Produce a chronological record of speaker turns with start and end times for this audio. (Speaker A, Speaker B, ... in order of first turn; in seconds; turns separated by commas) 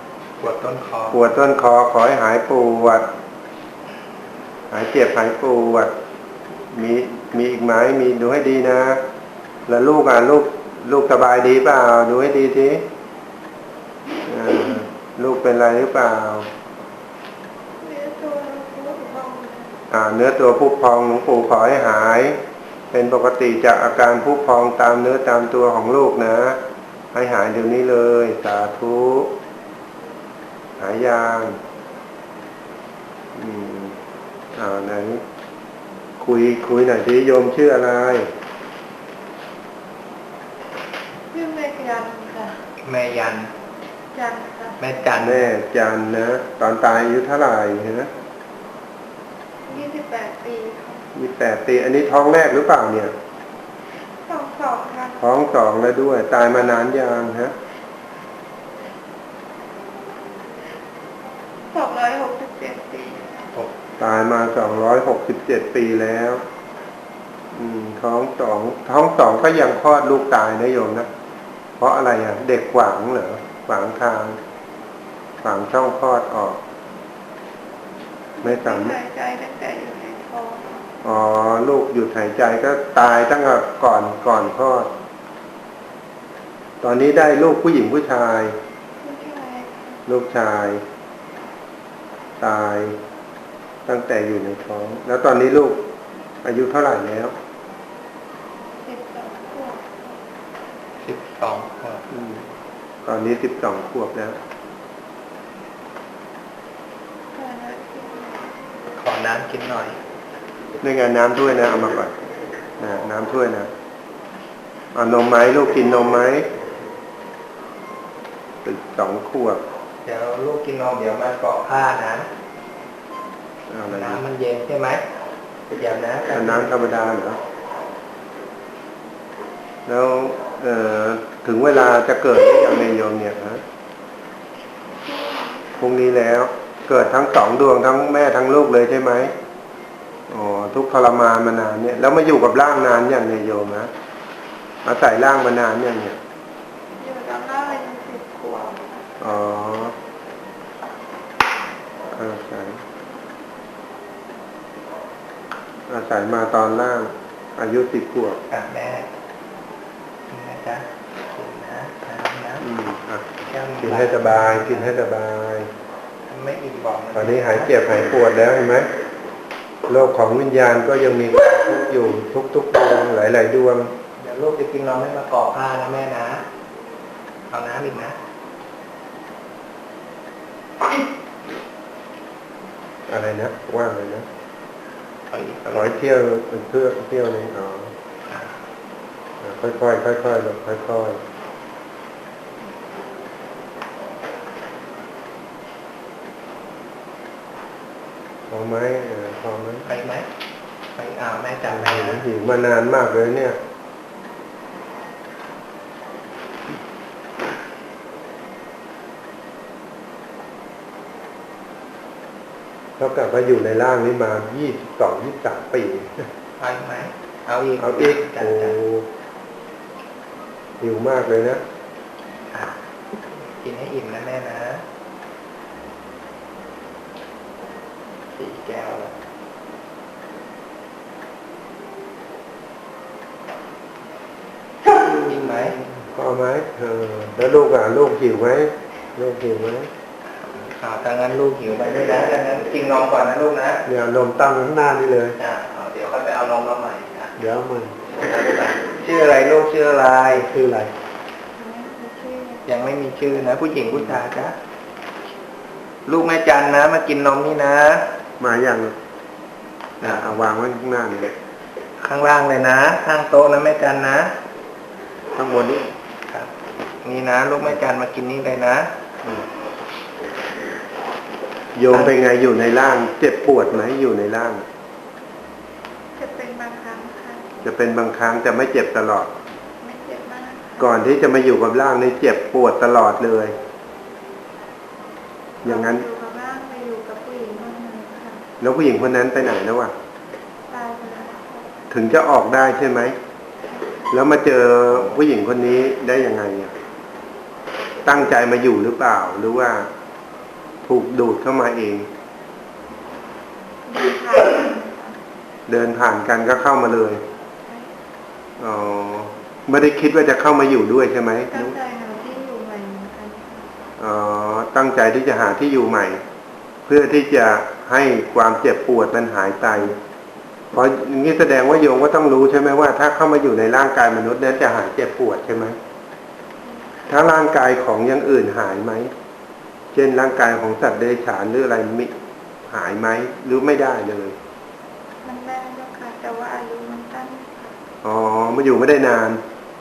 Speaker A: 0.4-1.2, Speaker B: 1.1-3.1, Speaker B: 4.7-5.9, Speaker B: 6.7-9.0, Speaker B: 9.7-12.8, Speaker B: 14.2-16.5, Speaker C: 17.8-19.8, Speaker B: 19.9-22.4, Speaker B: 22.9-26.6, Speaker B: 27.1-29.3, Speaker B: 30.8-31.6, Speaker B: 33.3-34.0, Speaker B: 34.5-35.2, Speaker B: 36.2-38.3, Speaker C: 41.3-42.6, Speaker A: 42.8-43.5, Speaker C: 44.1-44.9, Speaker A: 44.8-45.5, Speaker B: 45.2-48.1, Speaker C: 49.6-51.1, Speaker B: 51.1-53.1, Speaker C: 54.2-55.2, Speaker B: 55.2-57.5, Speaker C: 61.7-63.5, Speaker B: 64.0-66.4, Speaker B: 67.5-71.1, Speaker B: 71.8-74.4, Speaker B: 75.4-76.6, Speaker C: 78.4-80.9, Speaker B: 78.4-79.0, Speaker B: 81.0-84.9, Speaker B: 86.8-88.5, Speaker C: 89.0-90.0, Speaker B: 90.1-90.8, Speaker B: 92.4-93.0, Speaker B: 93.8-95.8, Speaker B: 96.4-97.3, Speaker C: 98.8-100.2, Speaker A: 101.0-102.0, Speaker B: 102.1-102.5, Speaker B: 103.0-104.4, Speaker C: 107.3-108.6, Speaker A: 109.0-110.0, Speaker B: 110.8-112.1, Speaker B: 112.8-113.7, Speaker B: 114.9-116.5, Speaker B: 118.6-119.6, Speaker A: 120.0-122.3, Speaker B: 123.7-124.2, Speaker A: 123.9-125.0, Speaker A: 125.7-126.8, Speaker B: 126.3-127.4, Speaker B: 129.8-133.6, Speaker C: 135.0-135.7, Speaker B: 135.8-139.3, Speaker B: 140.3-143.9, Speaker B: 144.8-146.2, Speaker C: 147.0-149.1, Speaker B: 149.2-149.9, Speaker B: 152.1-152.8, Speaker B: 155.9-158.4, Speaker A: 158.5-159.1, Speaker A: 160.3-162.7, Speaker B: 162.6-163.3, Speaker A: 163.4-164.9, Speaker B: 163.8-165.7, Speaker A: 166.3-168.2, Speaker B: 167.1-168.9, Speaker B: 169.9-173.9, Speaker A: 174.2-176.4, Speaker A: 177.5-178.2, Speaker B: 183.1-184.2, Speaker A: 185.3-185.9, Speaker B: 185.7-187.9, Speaker B: 189.4-191.2, Speaker B: 198.5-199.9, Speaker A: 199.8-200.2, Speaker A: 200.9-202.2, Speaker B: 201.7-203.6, Speaker B: 213.0-216.2, Speaker A: 216.6-218.8, Speaker B: 217.8-219.1, Speaker B: 220.8-221.6, Speaker A: 222.5-222.8, Speaker A: 223.3-224.8, Speaker A: 228.3-229.1, Speaker A: 234.8-235.8, Speaker B: 235.9-239.9, Speaker A: 240.4-243.8, Speaker B: 243.8-245.4, Speaker A: 245.4-247.3, Speaker B: 247.4-247.9, Speaker A: 248.2-250.5, Speaker B: 250.3-250.9, Speaker C: 251.6-252.7, Speaker A: 252.7-254.5, Speaker A: 256.1-258.1, Speaker B: 258.4-258.9, Speaker B: 260.0-261.3, Speaker A: 260.0-260.3, Speaker A: 262.0-264.3, Speaker B: 265.3-265.9, Speaker A: 266.3-268.9, Speaker B: 271.7-274.6, Speaker C: 276.1-277.5, Speaker B: 277.6-279.3, Speaker C: 279.8-281.0, Speaker B: 280.8-283.5, Speaker C: 285.6-288.5, Speaker B: 285.6-286.0, Speaker B: 288.6-289.9, Speaker C: 290.7-291.9, Speaker B: 291.9-293.1, Speaker B: 294.1-296.7, Speaker B: 298.0-299.9, Speaker B: 300.8-302.1, Speaker C: 303.8-305.2, Speaker B: 305.7-307.2, Speaker B: 308.6-311.7, Speaker C: 311.5-313.7, Speaker B: 314.0-316.2, Speaker B: 316.9-320.0, Speaker B: 320.7-325.8, Speaker C: 326.6-327.1, Speaker B: 327.1-329.1, Speaker B: 329.9-332.1, Speaker B: 332.6-334.3, Speaker C: 335.2-337.8, Speaker B: 338.0-339.4